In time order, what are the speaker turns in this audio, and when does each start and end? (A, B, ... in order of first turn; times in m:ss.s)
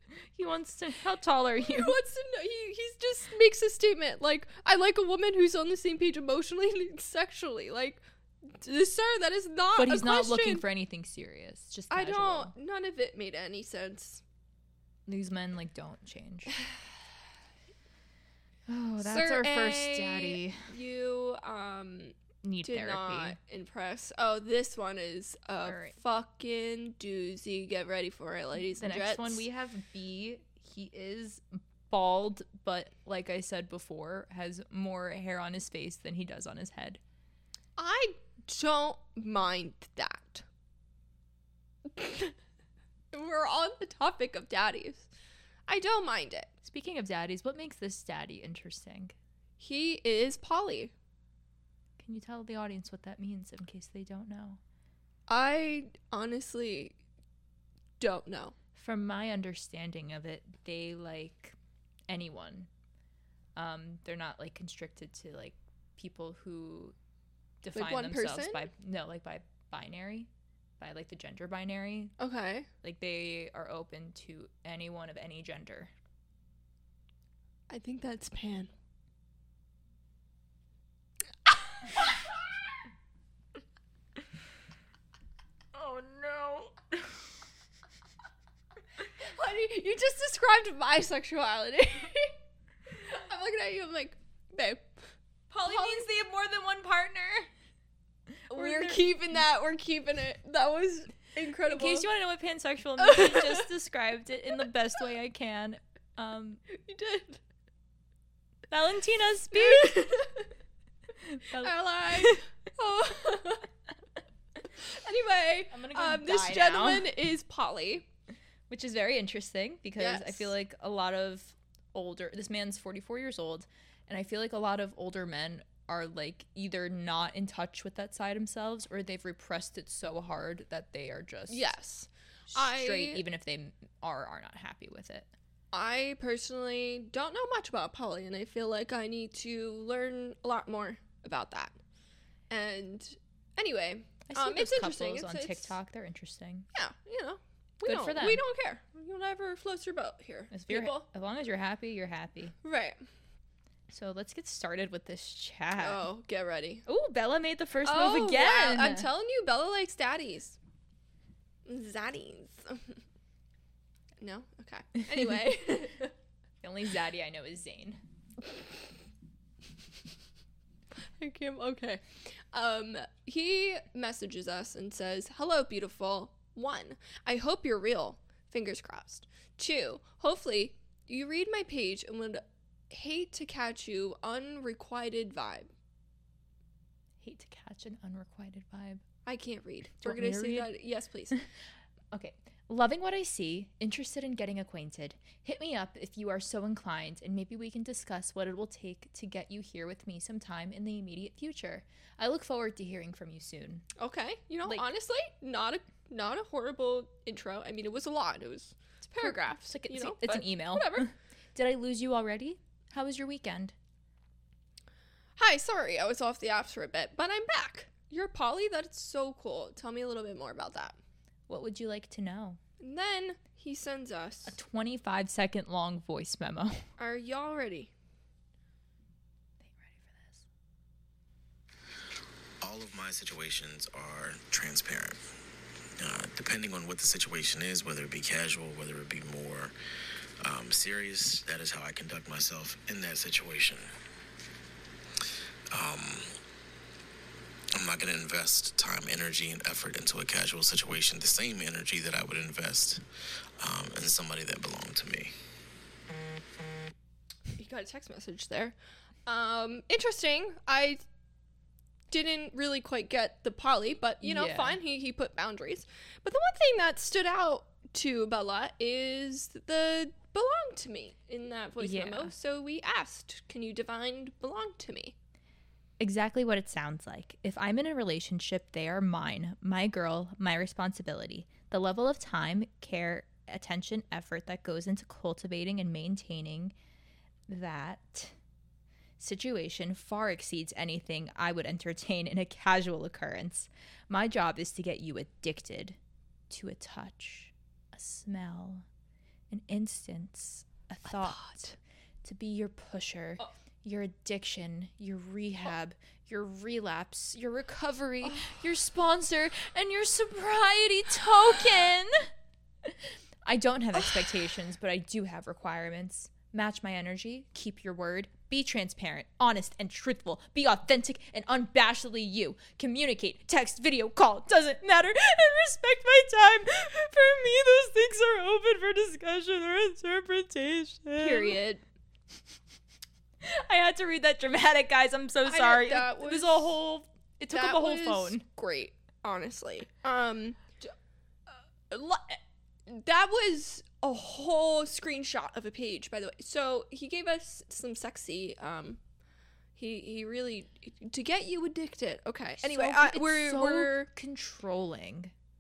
0:00.3-0:02.0 A
0:01.6-0:10.6 B
0:09.8-0:12.5 A
0:11.9-0:14.2 B
0:15.1-0:16.6 A
0:18.7-0:20.7 A
0:19.0-0:29.4 B
0:22.4-0:23.4 A
0:25.6-0:26.0 A
0:28.7-0:37.0 A
0:37.8-0:40.4 B
0:41.9-0:42.4 B
0:43.1-0:45.1 B
0:45.7-0:46.5 B
0:46.6-0:49.2 A
0:49.6-0:50.9 B
0:52.0-0:54.6 A
0:55.3-0:57.0 B
0:58.0-0:58.6 B
0:58.8-1:01.6 A
1:02.1-1:02.7 A
1:03.6-1:07.0 A
1:07.6-1:12.2 A
1:07.7-1:08.7 B
1:12.2-1:12.7 B
1:12.8-1:15.9 A
1:17.7-1:18.7 B
1:25.8-1:27.1 A
1:29.2-1:32.3 B
1:33.0-1:34.9 B
1:35.5-1:37.5 A
1:35.6-1:36.0 B
1:38.5-1:39.0 A
1:38.5-1:42.1 B
1:41.7-1:46.6 A
1:43.0-1:43.6 B
1:46.7-1:47.4 B
1:48.7-1:50.1 A
1:49.5-1:50.5 B
1:51.2-1:52.4 A
1:51.6-1:53.7 B
1:54.8-1:58.1 B
1:55.7-1:57.1 A
1:58.7-2:11.7 A
2:00.0-2:00.5 B
2:11.5-2:13.2 B
2:12.5-2:15.3 A
2:15.7-2:21.8 B
2:22.5-2:25.8 B
2:24.3-2:26.7 A
2:26.7-2:31.1 B
2:27.8-2:28.4 A
2:30.5-2:32.6 A
2:32.6-2:33.0 B
2:33.9-2:36.1 A
2:35.8-2:36.9 B
2:36.9-2:39.1 A
2:37.8-2:40.6 B
2:41.7-2:43.0 B
2:44.2-2:46.1 B
2:46.6-2:48.0 A
2:51.2-2:52.0 B
2:52.5-3:05.7 B
3:07.2-3:09.0 A
3:09.3-3:11.4 B
3:10.0-3:10.7 A
3:12.1-3:23.9 A
3:24.0-3:31.1 B
3:29.1-3:33.7 A
3:35.4-3:41.0 B
3:41.5-3:42.6 A
3:42.8-3:44.6 B
3:44.5-3:46.9 A
3:47.0-3:47.9 B
3:49.6-3:50.4 A
3:52.6-3:55.2 C
3:56.0-3:59.7 C
4:00.4-4:03.9 C
4:05.7-4:06.3 C
4:07.7-4:13.0 C
4:13.6-4:15.3 C
4:17.6-4:18.8 B
4:19.3-4:21.0 B
4:22.1-4:35.2 B
4:24.2-4:24.8 A
4:31.8-4:32.3 A
4:36.0-4:46.7 A
4:47.5-4:48.4 A
4:49.2-4:56.0 A
4:56.5-4:58.9 A
4:59.5-5:01.6 A
5:01.1-5:01.8 B
5:02.2-5:12.3 A
5:08.2-5:08.5 B
5:12.8-5:31.6 A
5:31.2-5:31.8 B
5:33.4-5:38.4 A
5:35.4-5:36.8 B
5:37.5-5:40.9 B
5:41.9-5:49.0 B
5:49.8-5:54.1 B
5:52.6-5:55.3 A